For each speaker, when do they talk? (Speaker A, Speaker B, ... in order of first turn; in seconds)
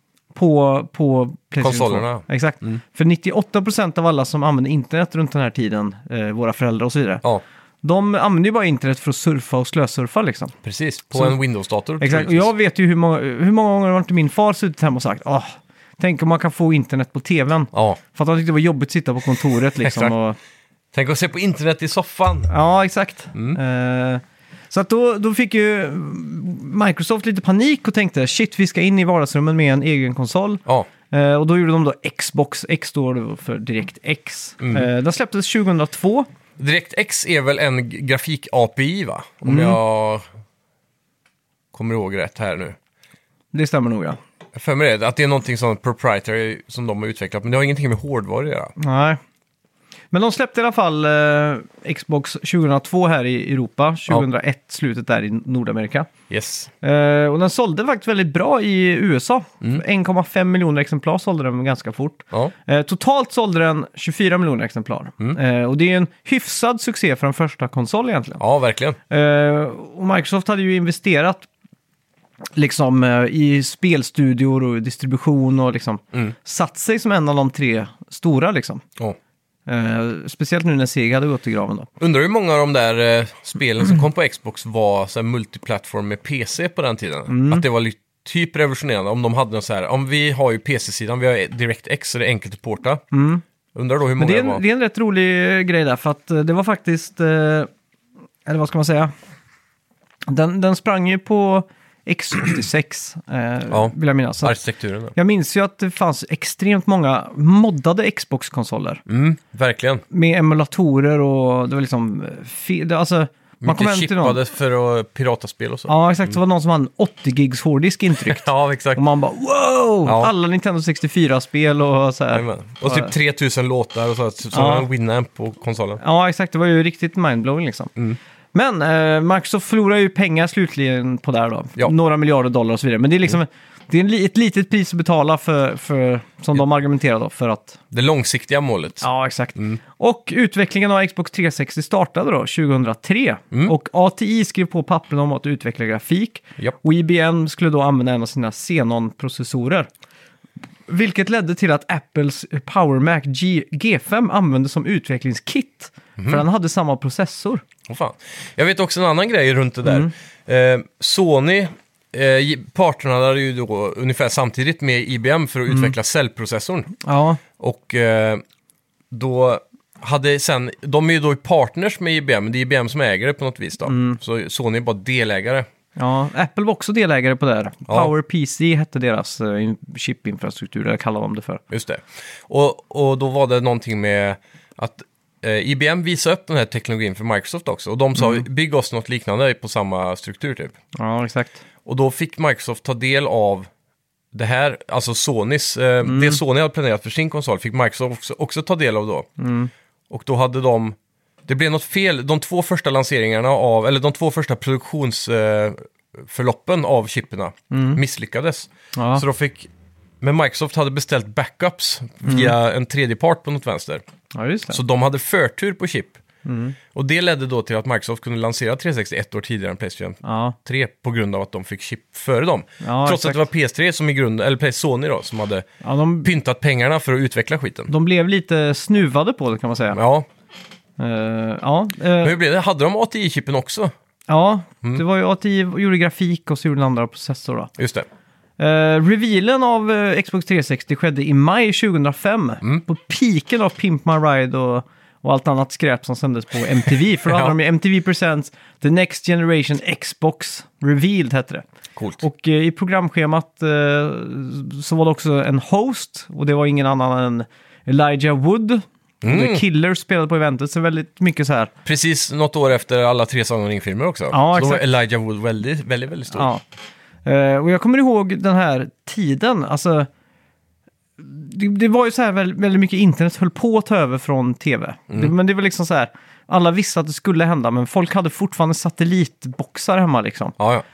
Speaker A: 0.3-7.2, 7.8-10.6, 12.0-20.4, 22.5-36.3, 39.5-39.8, 43.5-44.2, 48.8-49.2, 50.1-56.1, 56.8-68.4, 69.1-71.5, 72.6-78.8, 79.7-81.9, 87.3-87.7, 93.1-93.4, 94.2-97.7, 98.5-99.1, 100.3-104.6, 105.1-109.0, 110.1-114.4, 115.9-123.1, 124.5-124.9, 126.0-127.9, 128.5-137.8, 139.0-149.9, 150.9-157.6, 159.9-160.1, 167.0-167.4, 173.9-174.2, 176.0-181.6, 188.2-188.4, 191.0-191.6, 196.1-196.4, 199.4-199.7, 207.7-208.0, 208.9-209.2, 212.2-212.5, 214.3-214.8, 216.4-216.8, 220.2-220.6, 222.8-223.4, 225.8-226.3, 227.9-230.0, 231.0-232.4, 234.3-237.7, 238.6-251.7, 252.2-261.7, 264.3-264.8, 266.3-266.6, 267.2-270.1, 271.2-280.6
Speaker B: 1.6-2.8, 10.6-12.5, 17.7-18.0, 19.8-20.1, 20.9-22.5, 34.6-34.9, 36.6-40.2, 41.7-42.8, 44.5-48.7, 56.3-56.7, 68.4-69.0, 82.0-93.0, 93.8-94.6, 103.7-105.1, 109.1-110.0, 113.6-116.0, 118.2-119.0, 120.0-120.3, 122.3-126.0, 137.9-139.8, 156.2-156.4, 157.9-166.9, 167.6-168.4, 169.1-175.7, 181.7-190.7, 191.8-193.7, 194.3-199.3, 200.1-209.7, 210.2-214.0, 214.7-216.2, 216.9-225.7, 226.2-227.9, 229.9-230.3, 232.2-233.9, 237.8-238.1, 247.3-247.6, 252.0-252.2, 259.2-259.6, 261.9-266.5, 280.6-280.9